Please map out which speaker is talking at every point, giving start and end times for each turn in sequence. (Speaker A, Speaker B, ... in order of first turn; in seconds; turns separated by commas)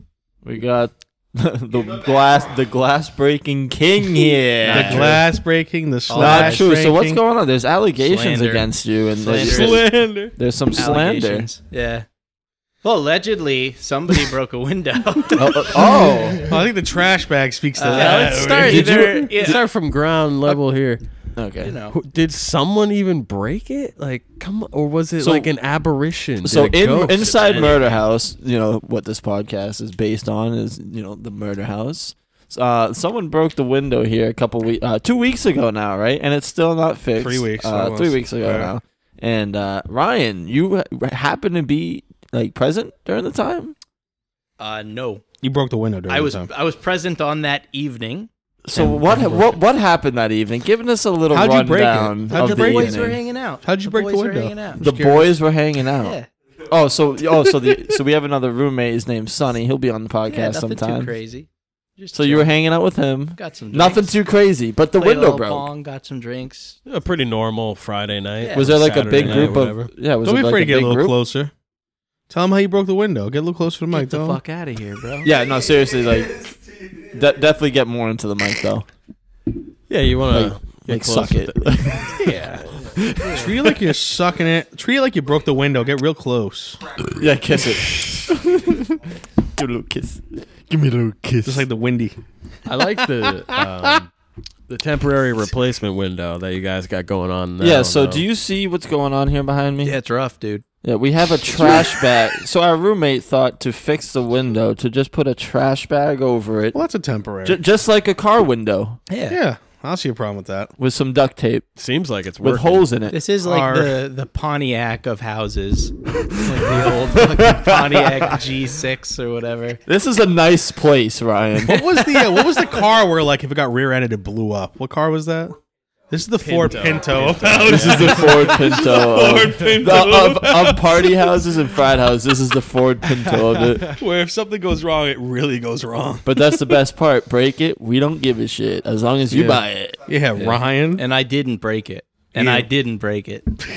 Speaker A: 0.4-5.2, Speaker B: 4.6-5.2, Speaker C: 4.7-7.2, Speaker B: 6.1-6.7, Speaker A: 6.2-11.5, Speaker B: 8.0-8.7, Speaker B: 9.2-9.9, Speaker C: 9.2-10.3, Speaker B: 10.8-12.1, Speaker B: 12.8-16.0, Speaker A: 15.3-16.4, Speaker C: 16.4-19.2, Speaker B: 17.8-19.6, Speaker D: 18.1-21.1, Speaker A: 18.6-19.3, Speaker A: 21.4-21.8, Speaker B: 21.6-22.0, Speaker D: 21.9-27.9, Speaker A: 25.2-25.5, Speaker A: 26.4-43.8, Speaker B: 27.2-27.9, Speaker C: 37.2-38.7, Speaker B: 44.6-45.2, Speaker C: 45.4-46.5, Speaker B: 46.1-48.3, Speaker A: 48.7-53.2, Speaker D: 48.8-49.4, Speaker C: 51.3-55.4, Speaker B: 52.3-54.8, Speaker A: 54.8-56.2, Speaker B: 56.0-56.3, Speaker A: 56.7-61.1, Speaker B: 60.3-62.5, Speaker A: 62.1-65.7, Speaker B: 63.4-64.2, Speaker B: 65.0-66.8, Speaker D: 66.9-69.9, Speaker B: 68.4-68.8, Speaker A: 68.5-71.2, Speaker C: 68.6-71.5, Speaker C: 72.3-74.4, Speaker B: 73.9-75.3, Speaker A: 75.2-78.9, Speaker D: 79.9-83.4, Speaker A: 80.3-83.7, Speaker B: 82.3-82.6, Speaker C: 83.3-86.8, Speaker A: 87.0-91.7, Speaker C: 91.5-92.2, Speaker D: 92.7-94.1, Speaker D: 94.7-98.2, Speaker A: 97.6-100.0, Speaker B: 99.8-100.6, Speaker A: 100.8-106.8, Speaker C: 106.7-107.6, Speaker A: 107.5-109.0, Speaker B: 109.1-109.4, Speaker C: 109.3-110.7, Speaker A: 110.8-111.7, Speaker D: 111.8-112.9, Speaker A: 112.4-113.2, Speaker B: 113.1-119.8, Speaker C: 113.4-114.0, Speaker A: 117.2-118.3, Speaker A: 119.9-121.9, Speaker C: 121.7-125.6, Speaker B: 122.1-122.6, Speaker C: 126.1-131.2, Speaker D: 126.4-128.9, Speaker A: 127.5-133.9, Speaker C: 133.8-136.7, Speaker A: 136.3-140.0, Speaker C: 139.3-141.1, Speaker B: 141.0-143.5, Speaker C: 142.4-142.7